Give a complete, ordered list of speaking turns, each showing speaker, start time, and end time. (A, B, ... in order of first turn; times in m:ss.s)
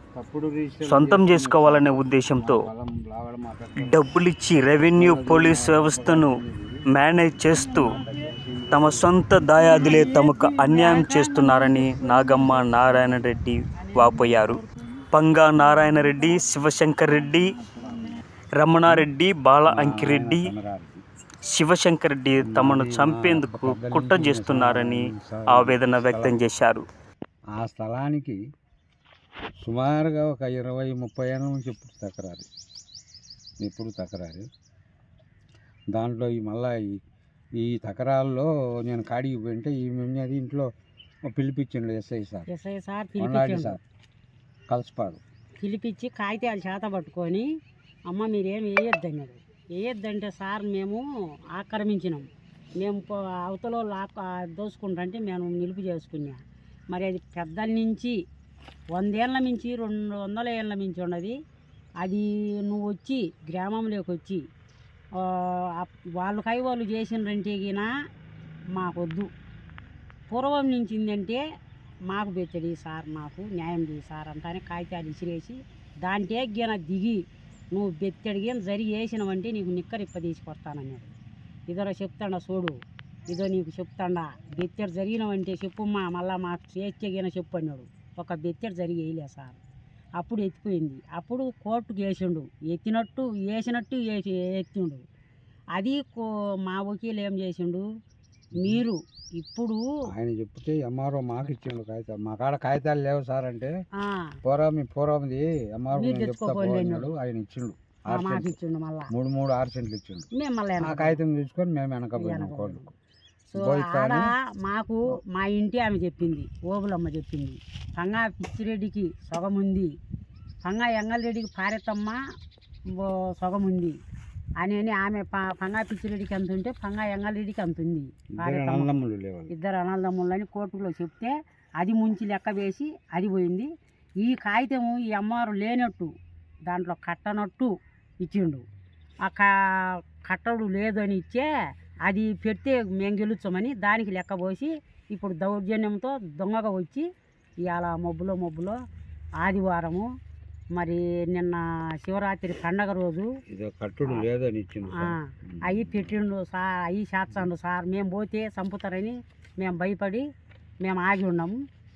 0:00.2-0:04.0 A
0:00.8-0:02.6 B
0:03.8-0:06.4 B
0:04.9-0:06.8 A
0:06.9-0:07.9 B
0:07.4-0:09.1 A
0:07.5-0:08.4 C
0:08.7-0:14.6 B
0:09.3-0:16.4 C
0:15.1-0:17.5 B
0:17.0-0:18.2 C
0:17.8-0:18.1 A
0:18.6-0:20.5 B
0:19.7-0:21.0 A
0:21.5-0:26.8 B
0:22.4-0:26.4 A
0:27.5-0:28.4 A
0:29.6-0:32.5 A
0:33.6-0:34.5 A
0:35.9-0:37.0 A
0:37.6-0:40.7 A
0:41.3-0:42.5 A
0:42.5-0:43.8 C
0:43.2-0:43.8 A
0:44.7-0:45.2 A
0:45.6-0:47.5 C
0:48.1-0:51.0 C
0:51.5-0:52.2 C
0:52.8-0:56.4 C
0:56.9-0:58.1 C
0:58.9-1:01.3 C
1:02.0-1:04.4 C
1:05.2-1:07.9 C
1:08.7-1:09.3 C
1:10.3-1:11.4 C
1:12.1-1:17.2 C
1:17.7-1:21.1 C
1:21.7-1:22.8 C
1:23.3-1:29.6 C
1:30.2-1:35.0 C
1:35.8-1:37.8 C
1:38.6-1:38.8 A
1:38.6-1:39.8 C
1:40.1-1:43.7 A
1:44.0-1:44.3 C
1:44.4-1:48.6 A
1:45.9-1:47.1 C
1:48.1-1:49.1 C
1:49.1-1:50.2 A
1:50.3-1:51.2 C
1:50.8-1:52.9 A
1:52.2-1:52.9 C
1:53.5-1:59.9 C
1:53.6-1:54.3 A
2:00.6-2:02.2 C
2:02.9-2:04.0 C
2:04.6-2:08.9 C
2:08.4-2:09.5 A
2:09.5-2:13.7 C
2:14.2-2:16.1 C
2:16.6-2:18.6 C
2:19.2-2:21.5 C
2:22.1-2:27.0 C
2:27.6-2:28.8 C
2:29.4-2:30.1 C
2:30.7-2:33.3 C
2:33.5-2:36.1 A
2:34.9-2:40.2 C
2:40.8-2:41.6 C